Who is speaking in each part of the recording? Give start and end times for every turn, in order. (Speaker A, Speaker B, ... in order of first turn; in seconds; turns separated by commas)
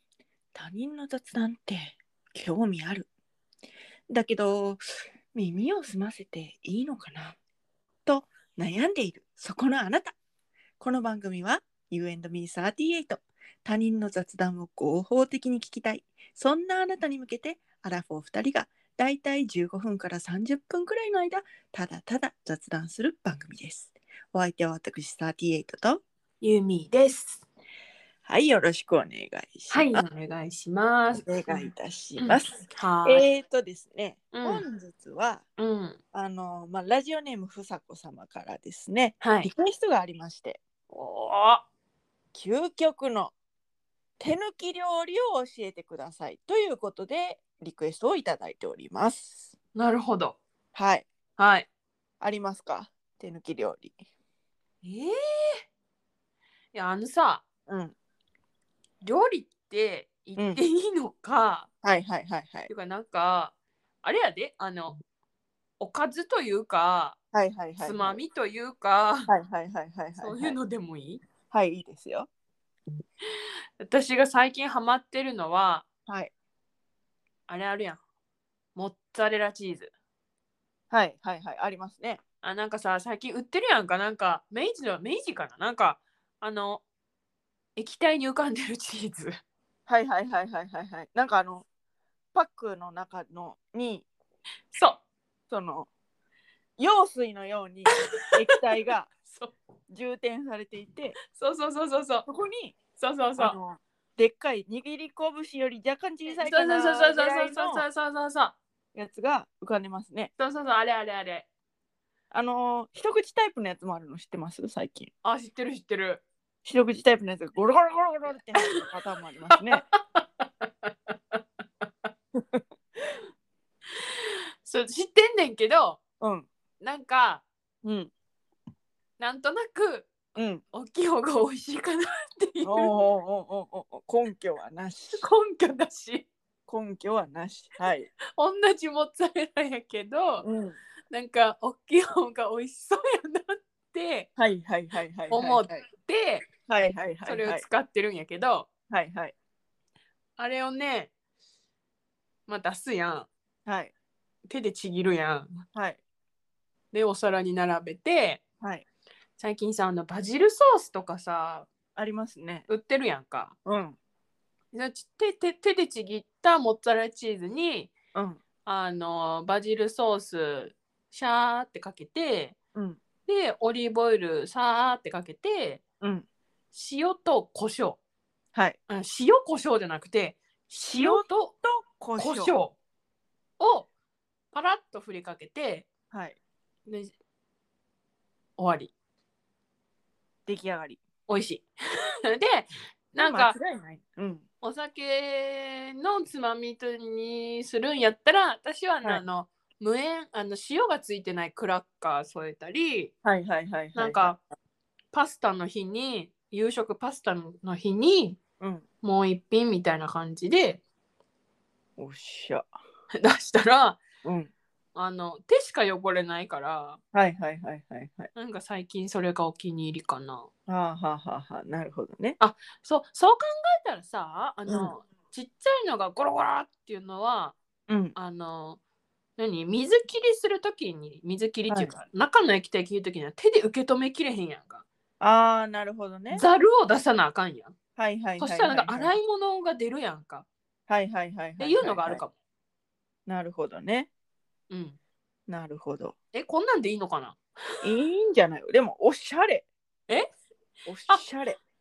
Speaker A: 0.5-3.1, Speaker A: 4.1-7.4, Speaker A: 8.1-10.2, Speaker A: 10.8-26.0, Speaker B: 26.4-27.4, Speaker A: 28.2-30.0, Speaker B: 29.7-33.2, Speaker A: 31.2-35.4, Speaker B: 34.3-34.6, Speaker B: 35.6-36.0, Speaker A: 36.1-40.6, Speaker B: 39.2-39.5, Speaker B: 40.9-41.6, Speaker A: 42.3-43.3, Speaker A: 44.2-49.5, Speaker B: 49.7-50.4, Speaker A: 50.7-51.0, Speaker B: 51.4-51.7, Speaker A: 52.2-53.9, Speaker B: 54.8-55.6, Speaker B: 56.7-57.4, Speaker A: 57.7-57.9, Speaker B: 59.0-61.7, Speaker A: 60.4-60.6, Speaker A: 61.8-62.7, Speaker B: 62.7-65.0, Speaker B: 65.8-67.2, Speaker A: 67.3-68.2, Speaker B: 67.8-69.3, Speaker A: 69.3-70.6, Speaker B: 70.2-71.2, Speaker A: 71.5-72.3, Speaker B: 73.8-75.9, Speaker A: 76.1-76.3, Speaker B: 77.5-78.0, Speaker B: 78.7-79.9, Speaker A: 80.9-82.2, Speaker B: 82.4-86.8, Speaker B: 87.8-89.3, Speaker A: 89.9-91.7, Speaker A: 92.3-94.0, Speaker B: 94.7-95.0, Speaker A: 95.5-95.9, Speaker A: 96.8-99.1, Speaker B: 98.2-99.5, Speaker A: 99.9-101.2, Speaker B: 101.2-102.3, Speaker A: 102.3-102.8, Speaker B: 103.0-103.6, Speaker A: 103.4-107.8, Speaker B: 106.3-108.5, Speaker A: 108.9-110.3, Speaker B: 110.4-111.5, Speaker A: 112.3-115.1, Speaker B: 115.2-116.2, Speaker A: 116.6-119.8, Speaker B: 119.5-122.1, Speaker A: 122.3-122.6, Speaker B: 124.0-126.0, Speaker A: 126.2-126.5, Speaker B: 126.8-127.4, Speaker A: 127.8-128.1, Speaker B: 129.2-130.2, Speaker A: 130.3-130.6, Speaker B: 130.7-133.0, Speaker A: 132.6-135.2, Speaker B: 135.1-136.3, Speaker A: 136.7-138.1, Speaker B: 138.4-140.4, Speaker A: 140.4-140.8, Speaker B: 141.1-144.3, Speaker A: 144.4-145.8, Speaker B: 145.3-146.5, Speaker A: 146.7-147.6, Speaker B: 147.2-148.7, Speaker A: 148.9-149.3, Speaker B: 150.4-151.1, Speaker B: 152.5-153.3, Speaker A: 153.7-153.9, Speaker B: 154.5-155.6, Speaker A: 155.7-156.0, Speaker B: 156.9-158.4, Speaker B: 159.4-161.7, Speaker A: 161.9-162.7, Speaker B: 162.7-163.5, Speaker A: 163.6-164.0, Speaker B: 164.7-167.9, Speaker A: 168.1-168.4, Speaker B: 168.6-172.6, Speaker A: 172.7-173.0, Speaker B: 173.2-175.8, Speaker A: 176.0-176.2, Speaker B: 176.7-178.0, Speaker B: 178.9-181.5, Speaker A: 180.8-182.5, Speaker B: 182.2-182.8, Speaker B: 183.6-183.9, Speaker B: 184.5-185.9, Speaker A: 186.1-186.4, Speaker B: 186.8-187.1, Speaker B: 188.6-188.9, Speaker A: 190.5-191.0, Speaker B: 191.3-191.7, Speaker B: 192.3-193.6, Speaker A: 193.2-194.4, Speaker B: 194.6-203.1, Speaker A: 203.2-204.4, Speaker B: 203.9-204.4, Speaker B: 205.1-208.4, Speaker A: 208.6-208.8, Speaker B: 209.0-210.8, Speaker A: 212.0-212.7, Speaker B: 213.1-214.0, Speaker A: 214.2-214.5, Speaker B: 214.9-217.0, Speaker A: 217.1-218.3, Speaker B: 218.3-220.5, Speaker A: 220.7-222.4, Speaker B: 222.4-227.5, Speaker A: 224.7-224.9, Speaker A: 227.9-228.1, Speaker B: 228.1-228.8, Speaker B: 229.4-234.8, Speaker A: 231.7-231.9, Speaker A: 235.2-236.4, Speaker B: 236.3-237.7, Speaker A: 238.0-239.2, Speaker B: 238.4-240.5, Speaker A: 240.9-242.2, Speaker B: 241.6-242.3, Speaker A: 243.3-244.1, Speaker B: 244.7-245.0, Speaker A: 245.5-246.1, Speaker B: 246.3-247.8, Speaker A: 247.8-249.6, Speaker A: 250.8-251.6